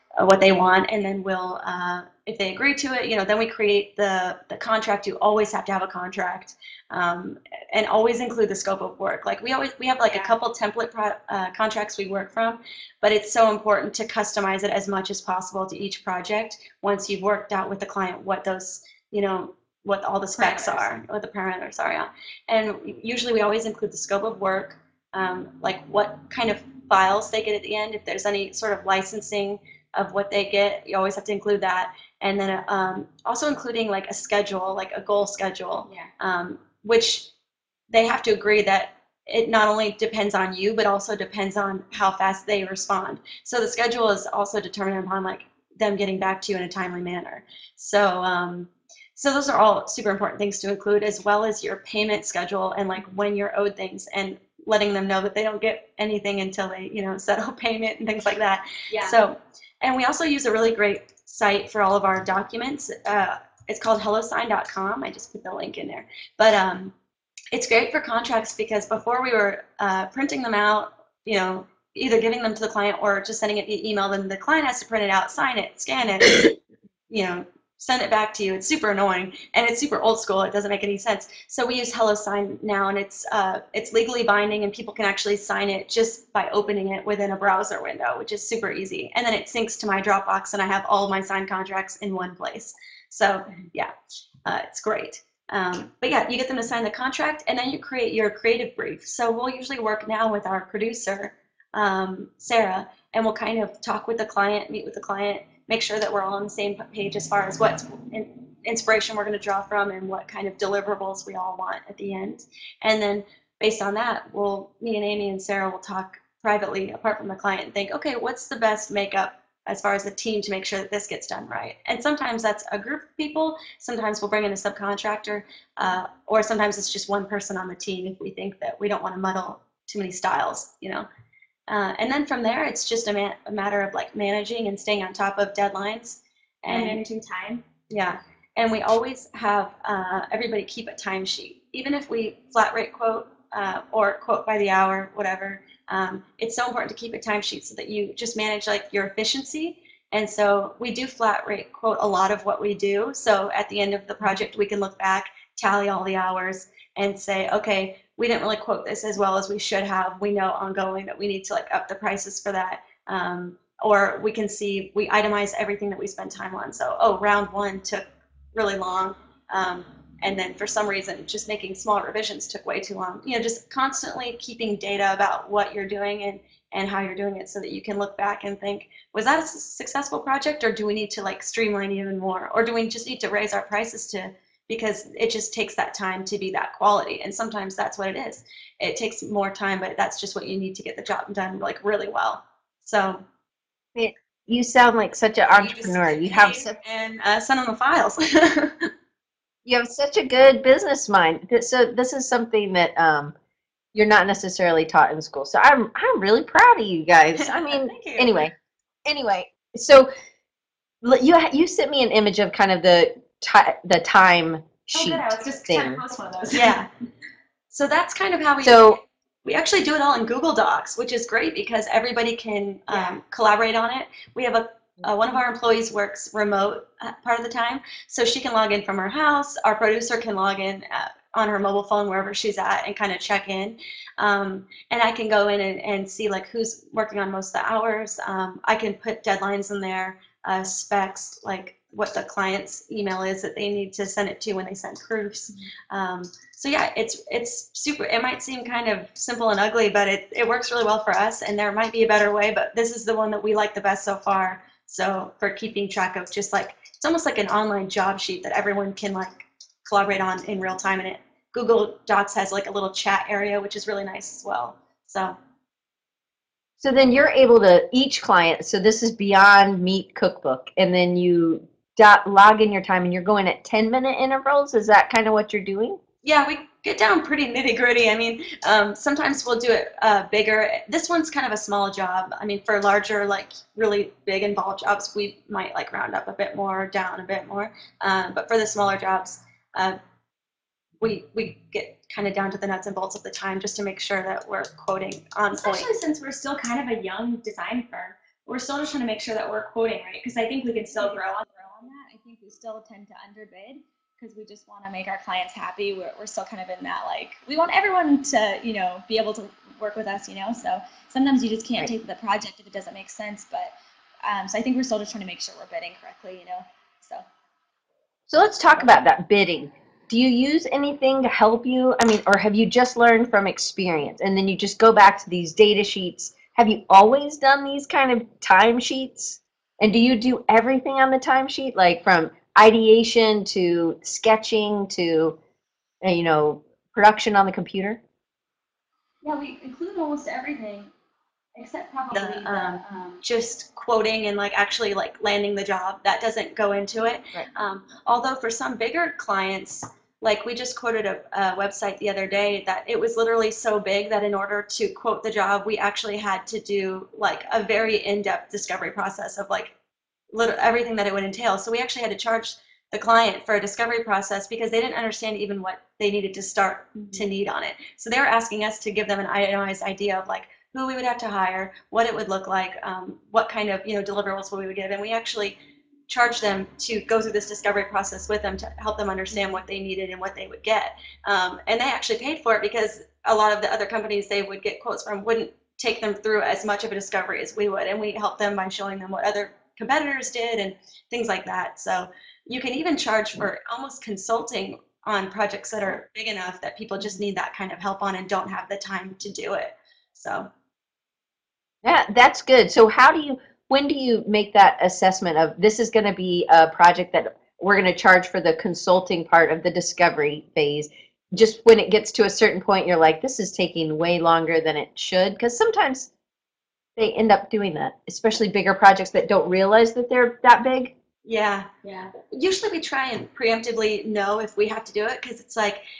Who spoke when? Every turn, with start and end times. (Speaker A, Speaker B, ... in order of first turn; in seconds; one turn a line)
Speaker A: 0.2-37.3
Speaker B: 20.4-20.7
Speaker A: 37.9-66.9
Speaker B: 58.9-59.2
Speaker A: 67.5-76.5
Speaker A: 77.1-93.9
Speaker A: 94.4-131.1
Speaker A: 131.7-137.0
Speaker B: 136.7-137.6
Speaker A: 137.9-193.3
Speaker C: 193.9-196.8
Speaker A: 195.5-198.9
Speaker C: 199.6-203.3
Speaker C: 203.9-208.5
Speaker A: 207.4-208.4
Speaker C: 209.1-210.1
Speaker C: 211.0-216.1
Speaker B: 214.9-216.8
Speaker A: 216.5-216.9
Speaker A: 217.7-265.4
Speaker C: 218.6-219.0
Speaker C: 266.8-276.0
Speaker A: 276.2-290.0
Speaker A: 291.0-295.9
Speaker B: 295.6-301.4
Speaker D: 301.0-317.2
Speaker C: 318.3-335.4
Speaker C: 336.0-338.0
Speaker E: 339.2-340.9
Speaker E: 341.5-343.2
Speaker A: 342.1-359.8
Speaker A: 360.3-400.5
Speaker B: 366.9-367.3
Speaker C: 401.8-416.1
Speaker C: 417.0-420.9
Speaker A: 421.2-421.7
Speaker B: 421.8-422.1
Speaker A: 422.2-425.8